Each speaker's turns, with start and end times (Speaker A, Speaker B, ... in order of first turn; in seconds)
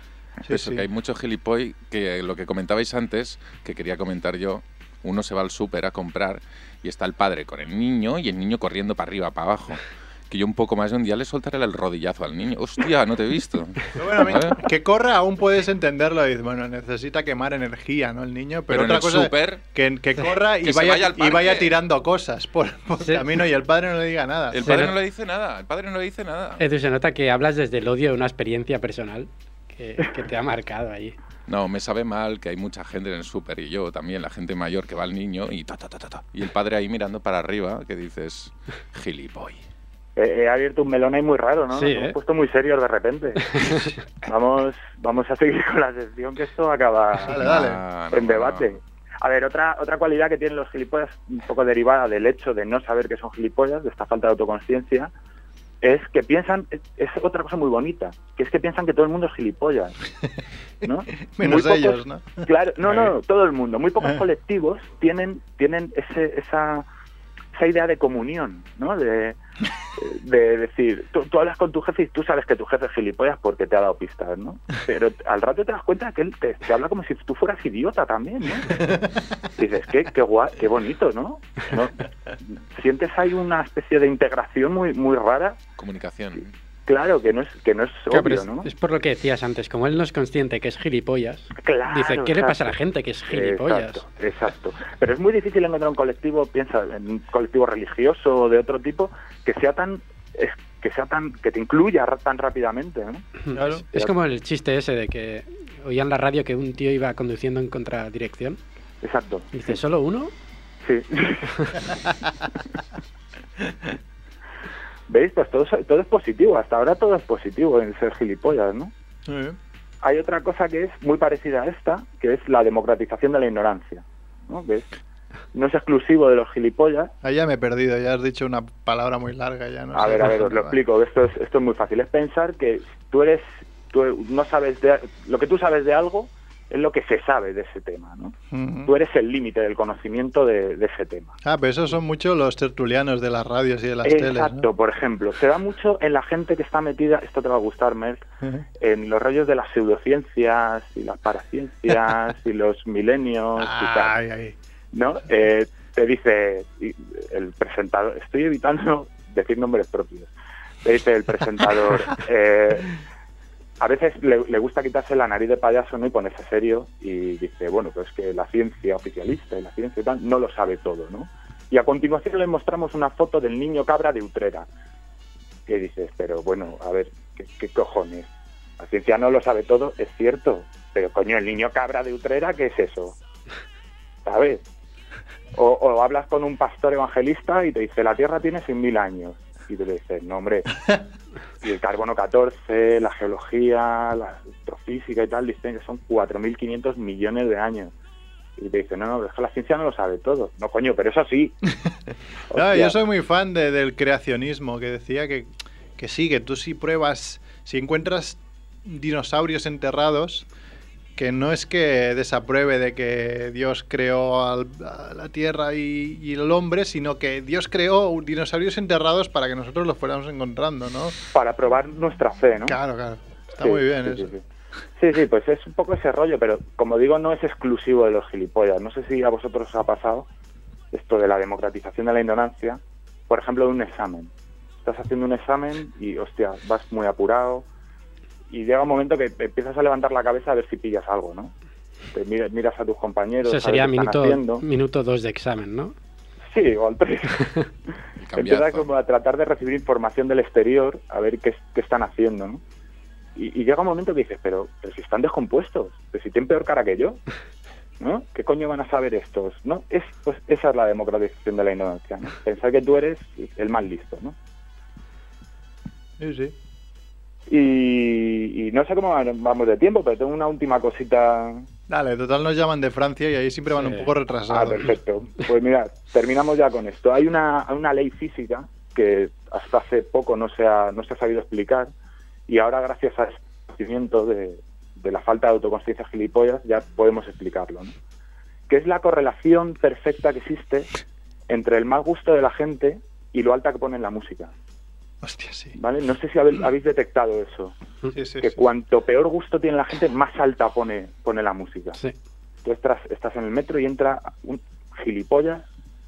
Speaker A: 0.4-0.8, 13.9-24.8, 47.2-47.8, 61.2-63.1, 78.7-79.1, 103.5-103.8, 119.3-119.6, 127.2-130.8, 138.5-138.9, 141.4-144.7, 153.6-154.6, 202.5-210.4, 211.2-221.3, 222.6-224.3, 266.2-266.5, 271.9-274.9, 295.2-295.8, 298.1-298.6
Speaker B: 0.5-14.6, 18.7-19.6, 20.6-21.8, 24.5-26.6, 31.5-39.6, 47.4-48.7, 85.8-86.5, 248.2-248.9
Speaker C: 23.0-23.2, 24.6-24.9, 26.6-31.1, 41.7-42.1, 43.6-43.9, 88.1-94.0, 103.5-108.6, 109.5-110.3, 243.4-245.9, 273.7-274.1
Speaker D: 40.1-47.4, 48.1-55.1, 55.8-60.0, 60.8-66.8, 67.5-69.4, 70.0-79.0, 79.5-85.6, 86.9-88.7, 91.6-92.8, 93.3-103.3, 109.0-109.5, 110.8-111.9, 115.1-118.9, 120.0-124.9, 125.5-127.1, 129.9-138.3, 138.8-141.3, 144.0-148.2, 148.8-154.2, 154.9-160.3, 160.8-163.0, 163.8-174.7, 175.7-183.2, 184.2-184.6, 185.5-190.9, 191.6-197.9, 198.6-201.6, 202.5-202.9, 221.3-222.8, 223.6-224.4, 225.0-230.3, 230.9-234.3, 234.8-237.7, 238.5-241.5, 242.1-244.6, 246.5-247.5, 248.3-252.6, 253.3-257.2, 258.0-264.4, 267.5-271.7, 274.5-281.9, 282.5-287.9, 288.7-290.9, 291.5-294.5, 295.8-297.7, 298.4-302.0, 302.6-305.6